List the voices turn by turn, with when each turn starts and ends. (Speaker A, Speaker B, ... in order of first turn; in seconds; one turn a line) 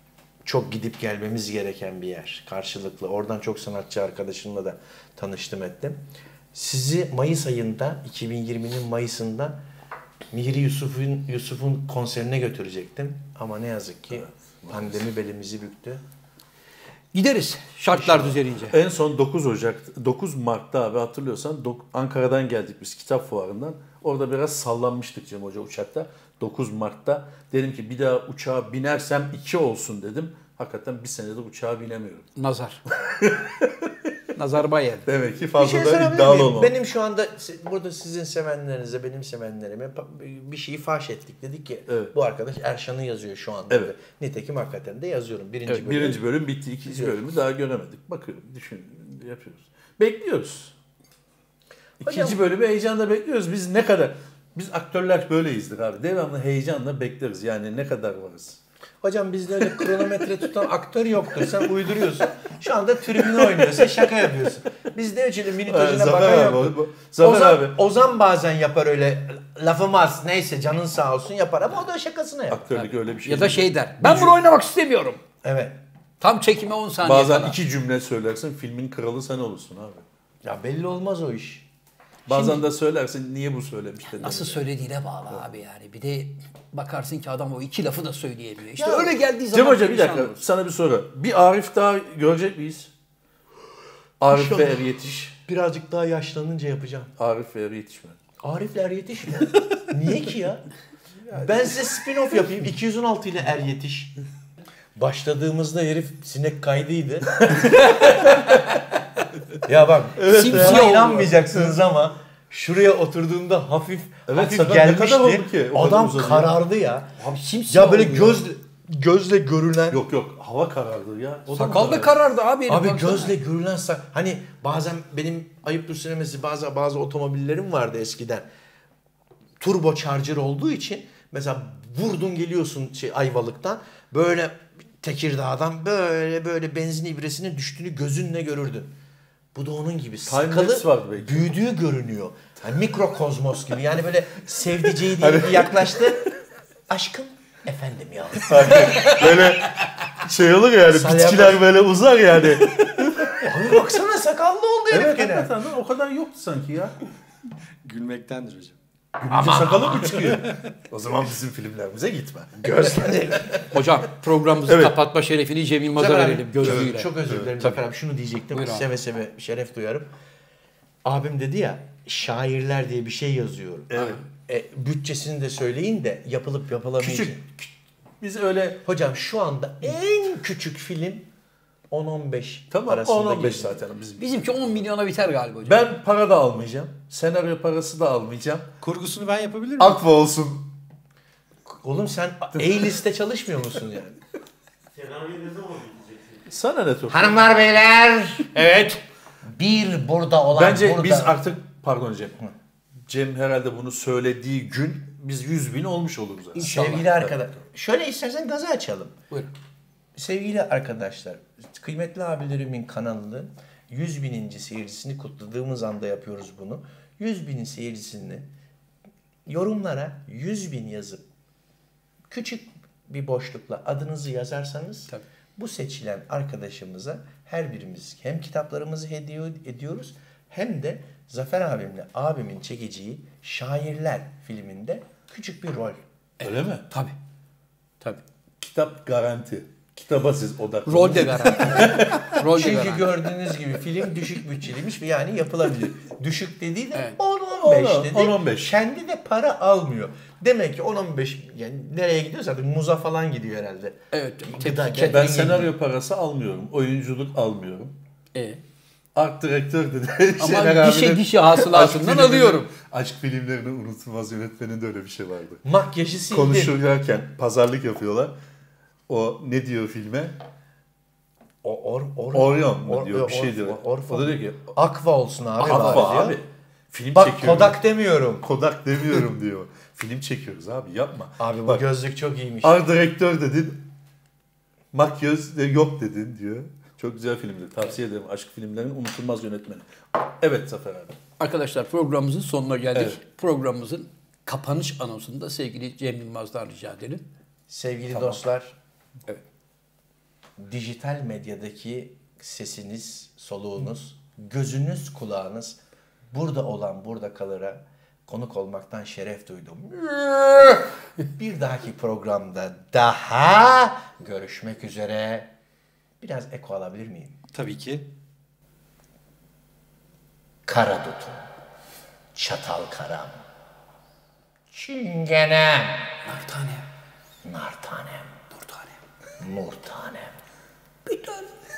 Speaker A: 0.5-6.0
Speaker A: 6.5-9.6
Speaker A: 10.3-16.0
Speaker B: 14.1-15.0
Speaker C: 17.1-18.8
Speaker B: 18.7-32.3
Speaker C: 32.4-32.8
Speaker B: 33.0-34.1
Speaker C: 34.4-35.1
Speaker B: 35.1-36.7
Speaker A: 35.6-46.2
Speaker B: 45.7-50.7
Speaker A: 46.9-47.2
Speaker A: 52.0-52.4
Speaker B: 52.0-58.6
Speaker A: 59.0-72.7
Speaker B: 63.2-63.9
Speaker B: 65.6-67.8
Speaker B: 72.5-74.3
Speaker C: 72.7-75.2
Speaker A: 75.4-75.8
Speaker C: 76.2-77.6
Speaker B: 77.0-80.1
Speaker A: 80.4-81.7
Speaker B: 82.3-84.7
Speaker A: 82.3-82.7
Speaker C: 84.2-90.4
Speaker A: 88.8-89.2
Speaker B: 89.5-92.9
Speaker B: 94.2-95.4
Speaker A: 94.3-94.8
Speaker A: 95.5-97.1
Speaker B: 97.2-98.2
Speaker A: 98.4-100.7
Speaker A: 101.3-104.2
Speaker A: 105.0-108.3
Speaker B: 107.5-108.3
Speaker A: 109.6-117.1
Speaker B: 110.2-111.8
Speaker C: 110.3-111.3
Speaker B: 114.3-116.5
Speaker C: 117.2-118.4
Speaker A: 117.7-120.0
Speaker B: 119.9-122.2
Speaker C: 121.5-123.3
Speaker A: 122.7-128.5
Speaker A: 129.6-138.9
Speaker A: 139.5-146.3
Speaker B: 140.3-141.6
Speaker B: 145.2-146.2
Speaker A: 146.9-149.2
Speaker B: 148.4-153.4
Speaker A: 150.9-151.7
Speaker A: 153.3-155.5
Speaker B: 154.9-157.0
Speaker D: 157.8-158.8
Speaker B: 159.2-163.0
Speaker C: 159.7-159.9
Speaker A: 162.6-163.7
Speaker C: 163.7-167.8
Speaker B: 164.7-164.9
Speaker A: 166.0-170.1
Speaker B: 166.6-167.4
Speaker C: 168.5-168.8
Speaker A: 171.1-177.4
Speaker B: 173.9-174.2
Speaker B: 177.0-178.8
Speaker A: 178.8-181.3
Speaker A: 181.9-183.8
Speaker B: 182.7-184.8
Speaker C: 184.2-185.8
Speaker B: 185.7-188.7
Speaker D: 188.8-190.0
Speaker B: 189.8-190.7
Speaker A: 191.8-194.2
Speaker B: 192.6-192.9
Speaker B: 196.5-197.5
Speaker A: 197.1-198.6
Speaker C: 198.6-199.0
Speaker A: 199.5-201.4
Speaker B: 200.5-202.4
Speaker B: 203.1-207.5
Speaker C: 206.6-207.1
Speaker A: 206.6-209.1
Speaker A: 210.2-218.5
Speaker A: 219.5-221.2
Speaker A: 222.3-236.0
Speaker C: 236.4-237.2
Speaker B: 236.4-236.8
Speaker B: 238.6-242.3
Speaker C: 240.9-243.1
Speaker A: 241.8-255.7
Speaker B: 247.6-248.7
Speaker C: 254.1-255.2
Speaker B: 255.0-258.0
Speaker C: 258.4-258.6
Speaker B: 259.1-265.6
Speaker C: 260.4-262.7
Speaker A: 265.6-266.8
Speaker B: 266.3-268.4
Speaker B: 269.1-270.4
Speaker A: 271.6-276.4
Speaker B: 272.3-274.8
Speaker B: 275.6-277.8
Speaker A: 277.1-278.4
Speaker B: 278.4-281.8
Speaker A: 281.4-282.8
Speaker B: 282.6-283.9
Speaker B: 284.9-291.2
Speaker C: 291.4-297.2
Speaker A: 297.7-298.8
Speaker B: 298.1-298.4
Speaker A: 300.6-305.8
Speaker A: 306.3-315.5
Speaker A: 316.2-317.4
Speaker D: 317.5-318.1
Speaker A: 320.7-321.5
Speaker A: 322.4-323.4
Speaker A: 324.7-326.2
Speaker C: 326.2-326.9
Speaker A: 327.4-328.4
Speaker A: 329.4-330.4